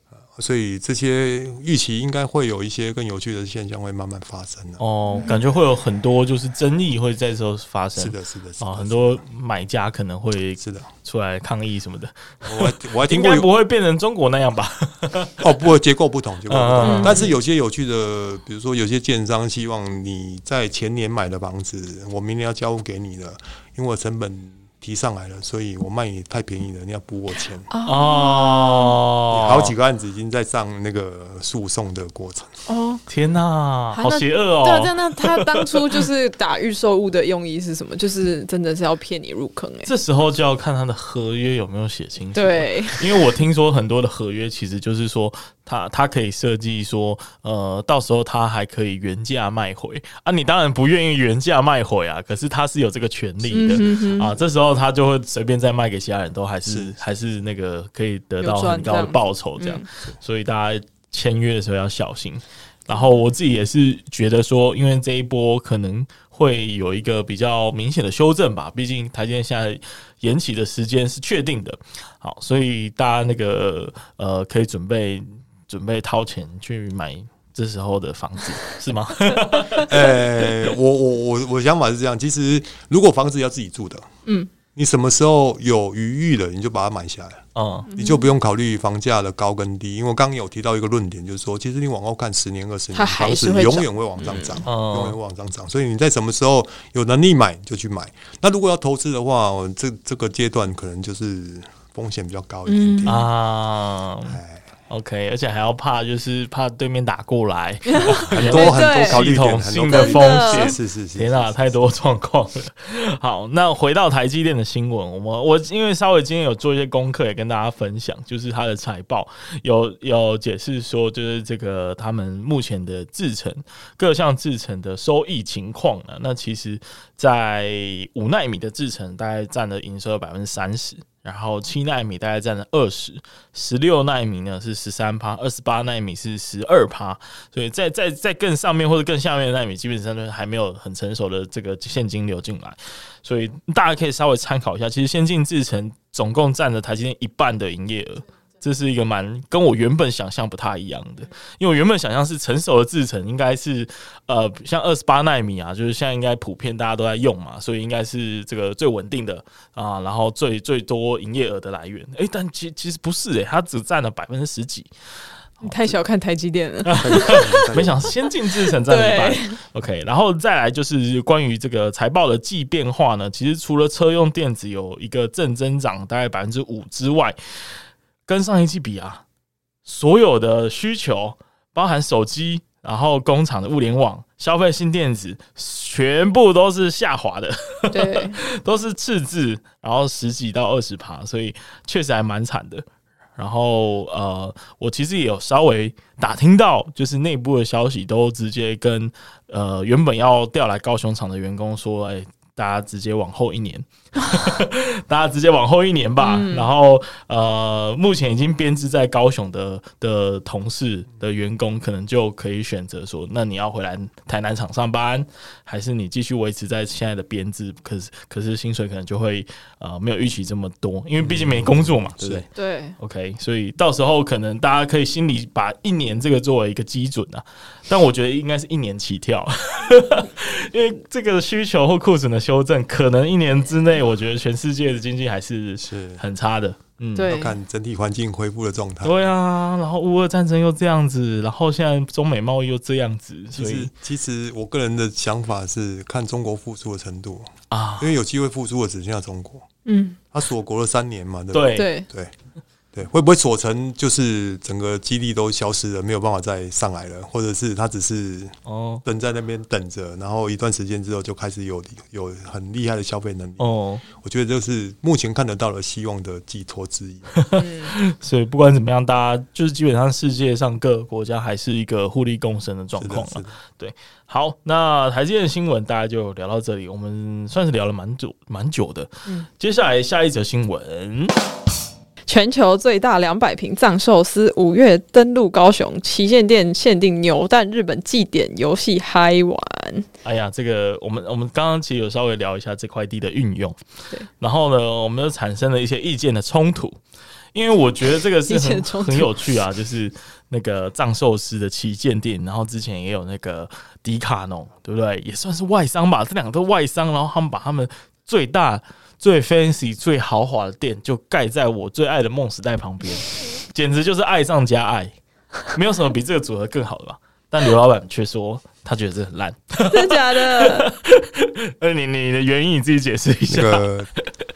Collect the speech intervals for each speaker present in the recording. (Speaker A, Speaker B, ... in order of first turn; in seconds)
Speaker A: 0.3-4.8, 8.0-9.2, 10.6-10.9, 12.4-13.5, 15.4-27.7, 29.3-32.5, 56.6-56.9, 79.8-84.1, 84.8-87.4, 87.9-103.3, 104.3-104.6, 108.0-111.8, 166.9-168.1, 221.2-222.4, 235.8-236.2, 237.3-239.2, 243.5-249.7, 250.3-252.3, 252.9-267.3, 273.0-273.6, 323.5-324.1
Speaker B: 4.8-15.4, 16.5-17.2, 27.8-29.7, 33.1-36.0, 39.8-80.0, 87.5-87.9, 94.6-95.2, 103.0-164.9, 166.8-177.4, 178.2-179.2, 179.8-192.8, 193.4-237.3, 239.0-243.9, 247.7-248.1, 251.5-251.9, 258.6-259.0, 263.6-264.0, 267.3-281.3, 290.2-293.8, 294.4-297.0, 297.5-315.1, 315.7-323.9
Speaker C: 5.1-5.4, 16.8-17.3, 27.7-28.9, 32.7-33.0, 33.9-39.9, 42.3-43.2, 53.5-54.3, 58.4-59.8, 62.9-63.2, 87.9-88.3, 92.9-94.6, 102.7-103.1, 107.9-109.2, 109.9-110.8, 165.6-167.6, 168.7-169.6, 187.9-188.4, 206.2-206.7, 222.5-222.9, 237.2-237.6, 249.8-250.2, 251.7-252.1, 267.6-267.9, 282.3-290.1, 298.5-299.3, 319.8-320.9